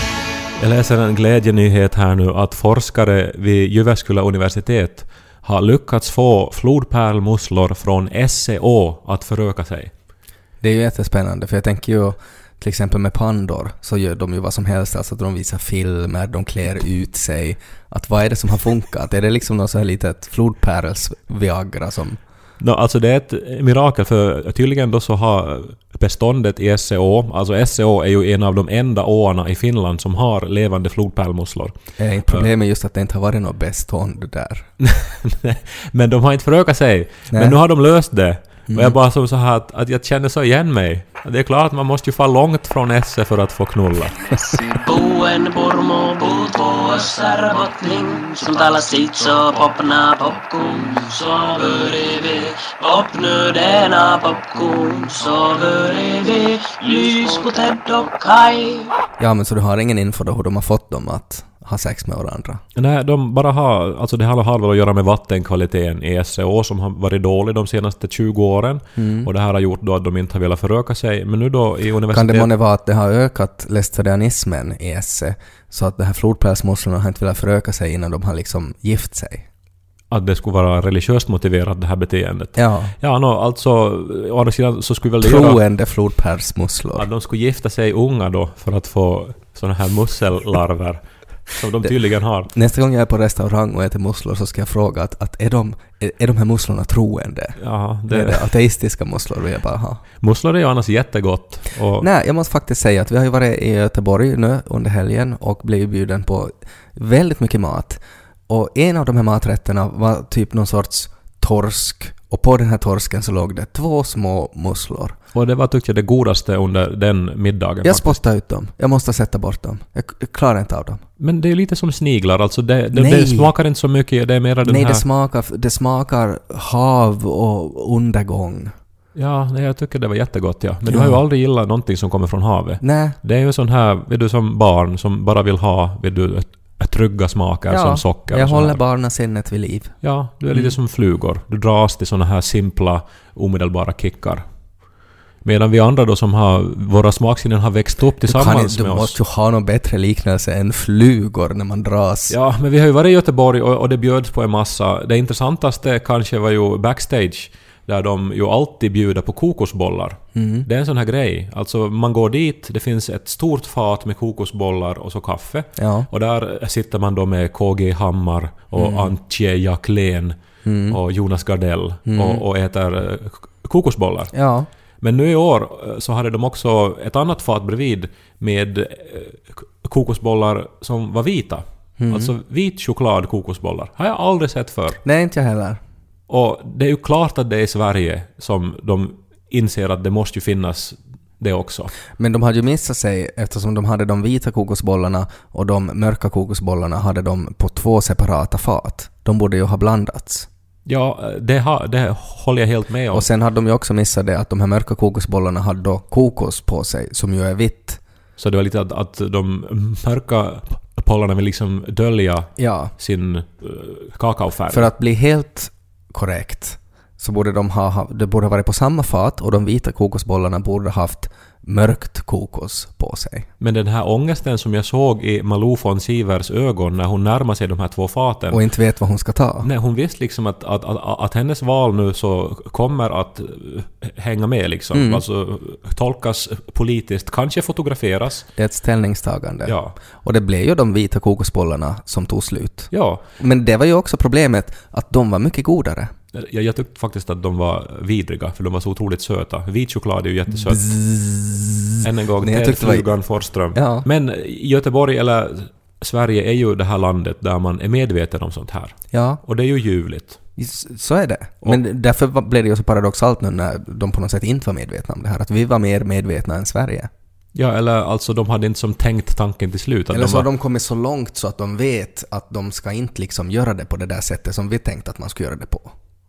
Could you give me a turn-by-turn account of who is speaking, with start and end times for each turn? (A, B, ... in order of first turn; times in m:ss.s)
0:00.6-0:09.9 A
0:10.6-0:22.2 B
0:22.6-0:31.8 A
0:32.0-0:34.7 B
0:34.8-0:44.2 A
0:37.3-0:37.6 B
0:38.7-0:39.0 B
0:44.3-0:44.6 B
0:44.7-0:58.9 C
0:59.2-1:02.6 B
1:02.7-1:12.5 A
1:09.0-1:09.3 B
1:12.1-1:19.5 B
1:20.1-1:25.6 A
1:22.6-1:22.9 B
1:25.2-1:27.0 B
1:26.9-1:32.5 A
1:32.5-1:40.0 B
1:37.6-1:38.5 A
1:40.2-1:42.1 A
1:42.0-1:55.2 B
1:55.3-1:58.2 A
1:57.8-2:01.0 B
2:01.2-2:05.0 A
2:02.9-2:03.5 B
2:04.6-2:08.7 B
2:09.1-2:18.8 A
2:10.9-2:11.2 B
2:12.8-2:13.2 B
2:17.7-2:19.9 B
2:20.0-2:24.4 A
2:25.4-2:29.2 A
2:28.3-2:32.4 B
2:32.3-2:50.4 A
2:40.3-2:40.7 B
2:45.8-2:46.1 B
2:48.7-2:49.1 B
2:50.6-2:51.0 B
2:50.9-2:54.3 A
2:52.1-2:52.4 B
2:54.3-2:54.7 B
2:55.0-3:05.0 A
3:02.0-3:02.3 B
3:05.0-3:05.8 B
3:06.3-3:11.9 A
3:12.2-3:20.5 B
3:20.8-3:23.3 A
3:23.1-3:28.0 B
3:28.4-3:34.9 A
3:32.6-3:32.9 B
3:34.7-3:43.5 B
3:43.6-3:48.6 A
3:48.5-3:49.7 B
3:49.6-3:58.4 A
3:54.9-3:55.2 B
3:58.5-4:06.1 B
3:59.6-4:00.0 A
4:02.9-4:03.2 A
4:06.3-4:10.9 A
4:10.6-4:13.1 B
4:12.0-4:20.4 A
4:13.7-4:14.0 B
4:19.1-4:19.4 B
4:20.6-4:27.1 B
4:27.5-4:30.5 A
4:30.1-4:35.9 B